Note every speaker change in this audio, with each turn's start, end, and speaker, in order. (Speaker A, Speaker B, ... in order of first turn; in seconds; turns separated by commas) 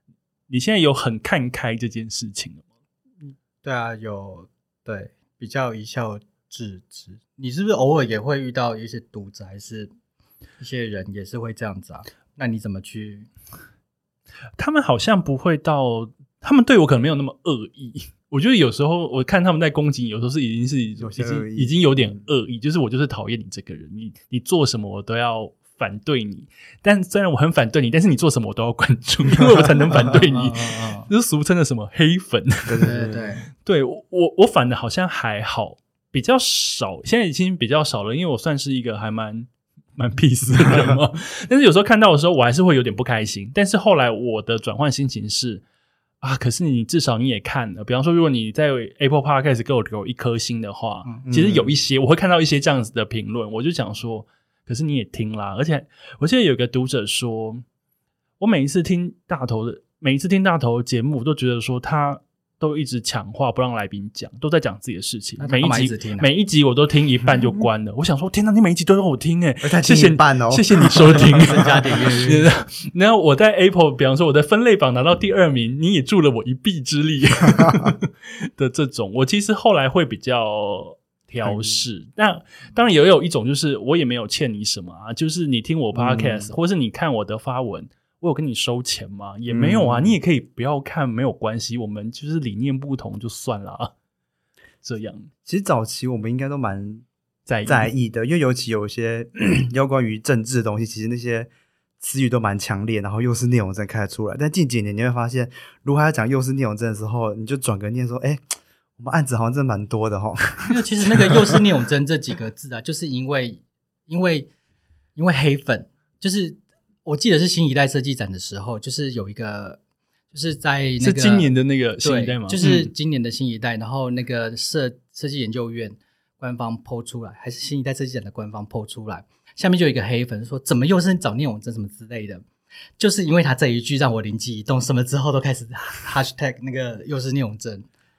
Speaker A: 0.5-2.6, Speaker B: 3.2-9.9, Speaker B: 10.6-13.3, Speaker A: 14.6-32.9, Speaker C: 21.0-22.2, Speaker B: 30.3-31.1, Speaker C: 32.7-33.4, Speaker B: 32.8-33.5, Speaker A: 33.6-45.6, Speaker A: 46.2-57.6, Speaker C: 51.3-51.7, Speaker A: 58.4-93.9, Speaker B: 65.4-66.3, Speaker C: 69.6-71.5, Speaker B: 71.3-72.4, Speaker C: 77.6-77.9, Speaker C: 81.4-81.8, Speaker C: 85.9-86.5, Speaker C: 89.5-90.1, Speaker A: 94.8-95.3, Speaker C: 95.4-97.0, Speaker A: 97.5-97.9, Speaker C: 97.7-108.4, Speaker C: 109.0-111.6, Speaker B: 110.6-114.5, Speaker B: 115.2-119.8, Speaker B: 120.3-132.4, Speaker A: 121.0-122.9, Speaker B: 133.0-137.9